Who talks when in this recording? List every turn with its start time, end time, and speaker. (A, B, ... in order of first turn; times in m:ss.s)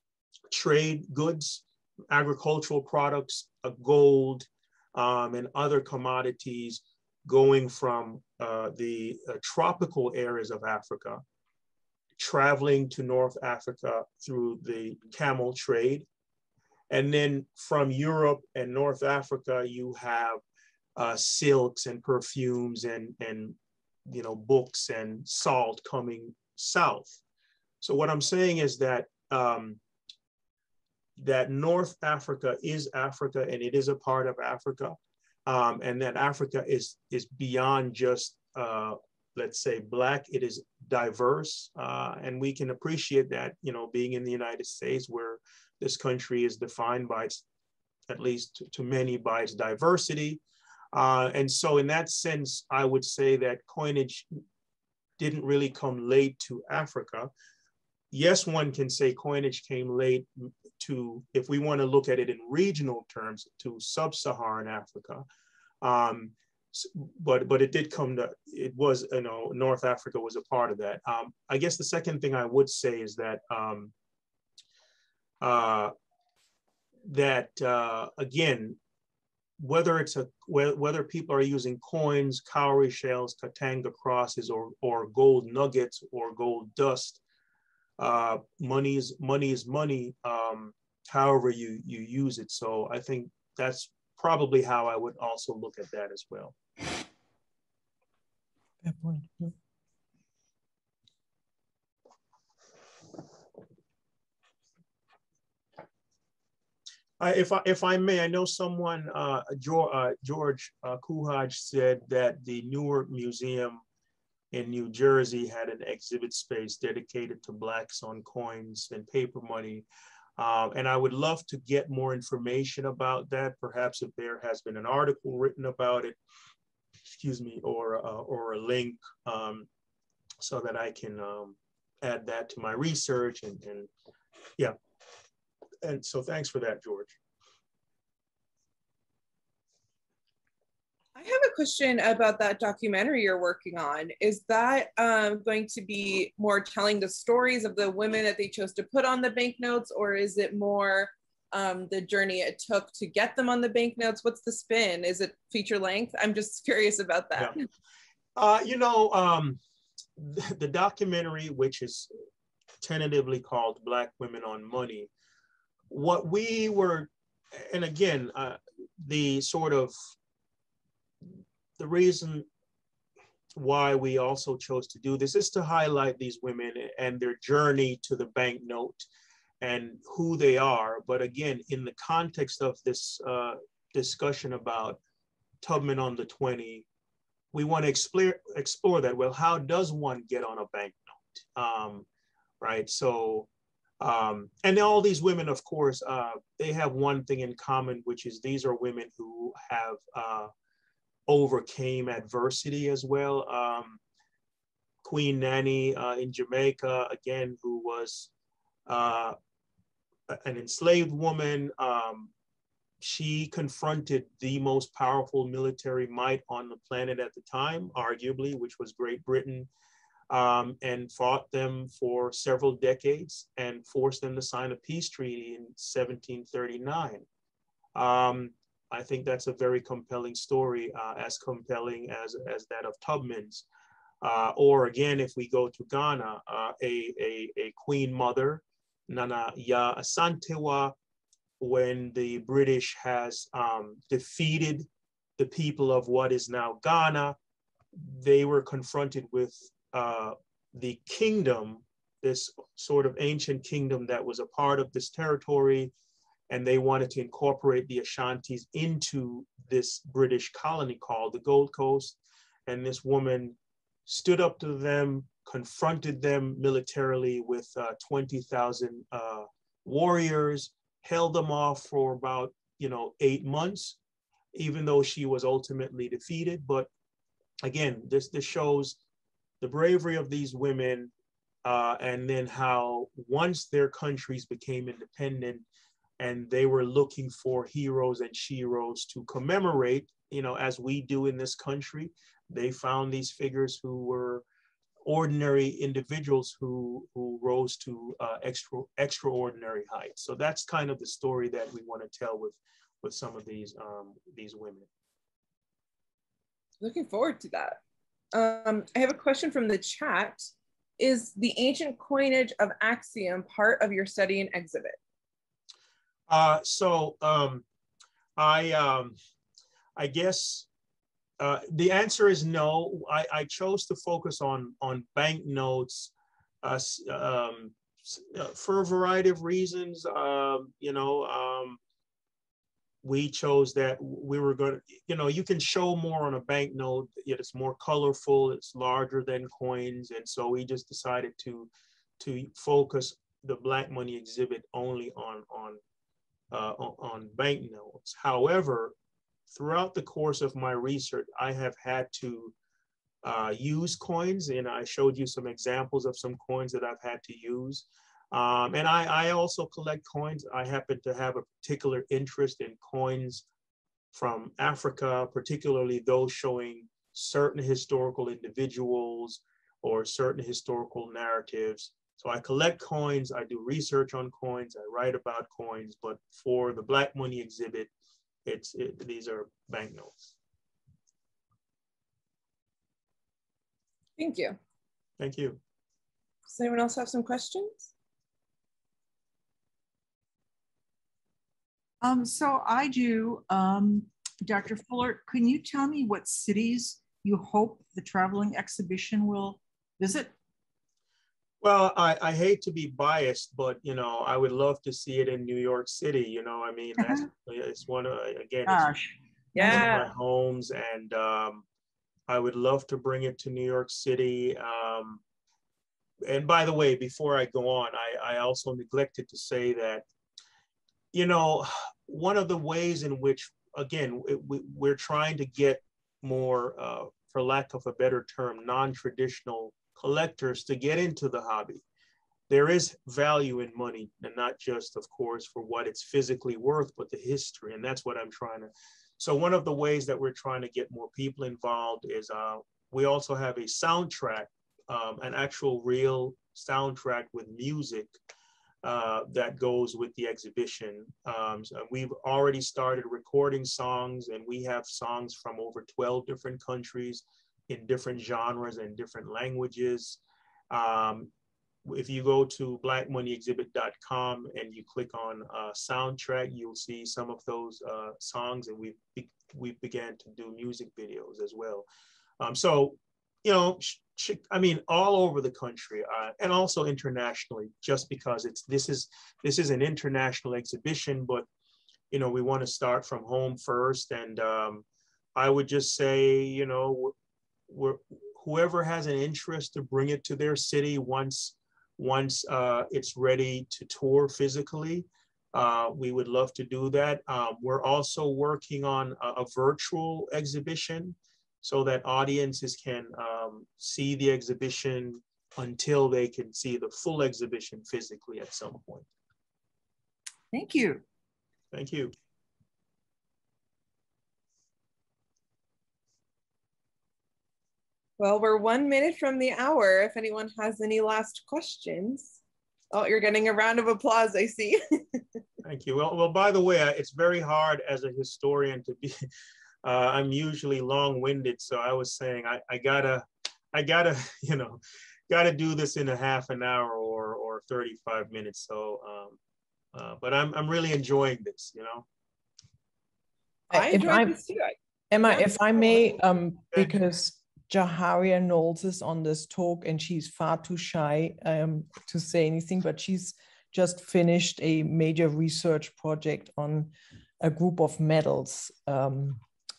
0:00.5-0:11.2 A
0:12.2-0:16.0 A
0:16.9-0:20.4 A
0:21.0-0:27.2 A
0:27.8-0:29.8 A
0:31.2-0:47.4 A
0:48.1-0:50.4 A
0:50.9-0:54.3 A
0:55.2-0:57.3 A
0:58.1-1:05.2 A
1:05.8-1:13.9 A
1:15.4-1:15.9 A
1:17.0-1:18.8 A
1:19.6-1:27.2 A
1:28.0-1:36.5 A
1:38.8-1:39.5 B
1:47.2-1:53.8 A
1:54.5-1:59.8 A
2:00.4-2:06.2 A
2:07.1-2:09.7 A
2:10.4-2:13.9 A
2:15.8-2:17.2 A
2:21.2-2:37.6 C
2:38.4-2:39.6 A
2:40.2-2:42.1 A
2:42.8-2:45.1 A
2:45.9-2:49.9 A
2:51.8-2:52.5 A
2:53.5-2:59.0 A
2:59.6-3:05.0 A
3:05.6-3:06.8 A
3:07.5-3:12.0 A
3:12.6-3:13.5 A
3:14.0-3:20.5 A
3:21.3-3:24.0 A
3:25.0-3:28.3 A
3:28.9-3:29.4 A
3:30.3-3:32.3 A
3:33.0-3:39.7 A
3:40.3-3:47.2 A
3:47.9-3:53.6 A
3:54.2-4:00.9 A
4:01.6-4:07.4 A
4:07.9-4:15.9 A
4:16.5-4:23.6 A
4:24.1-4:34.0 A
4:34.5-4:36.9 A
4:37.6-4:39.0 A
4:39.6-4:41.1 A
4:41.6-4:45.6 A
4:46.2-4:54.4 A
4:55.0-5:04.9 A
5:06.8-5:07.8 C
5:08.3-5:10.5 C
5:11.0-5:15.0 C
5:16.3-5:17.6 A
5:18.4-5:19.1 A
5:20.0-5:20.7 A
5:21.4-5:26.1 A
5:26.6-5:31.8 A
5:33.0-5:45.8 A
5:46.5-5:48.9 A
5:49.5-5:52.5 A
5:53.2-6:03.4 A
6:04.1-6:17.9 A
6:18.4-6:20.3 A
6:24.2-6:24.6 C
6:25.2-6:25.6 A
6:26.5-6:27.9 C
6:32.0-6:40.3 D
6:41.6-6:48.9 A
6:47.0-6:47.3 D
6:48.6-6:49.8 D
6:49.5-6:50.1 C
6:49.6-6:51.6 A
6:52.3-6:55.2 A
6:56.2-7:00.0 A
7:01.1-7:11.8 A
7:12.5-7:28.1 A
7:28.8-7:40.2 A
7:40.7-7:41.3 A
7:41.8-7:51.9 A
7:52.4-8:01.4 A
8:02.1-8:04.8 A
8:05.4-8:07.1 A
8:07.7-8:29.1 A
8:30.5-8:31.0 D
8:31.7-8:32.1 A
8:38.2-8:42.4 C
8:42.9-8:45.2 C
8:45.6-8:49.3 A
8:49.8-8:59.4 A
8:59.9-9:02.0 A
9:03.7-9:04.4 B
9:03.7-9:04.8 C
9:05.1-9:19.4 B
9:05.3-9:06.1 C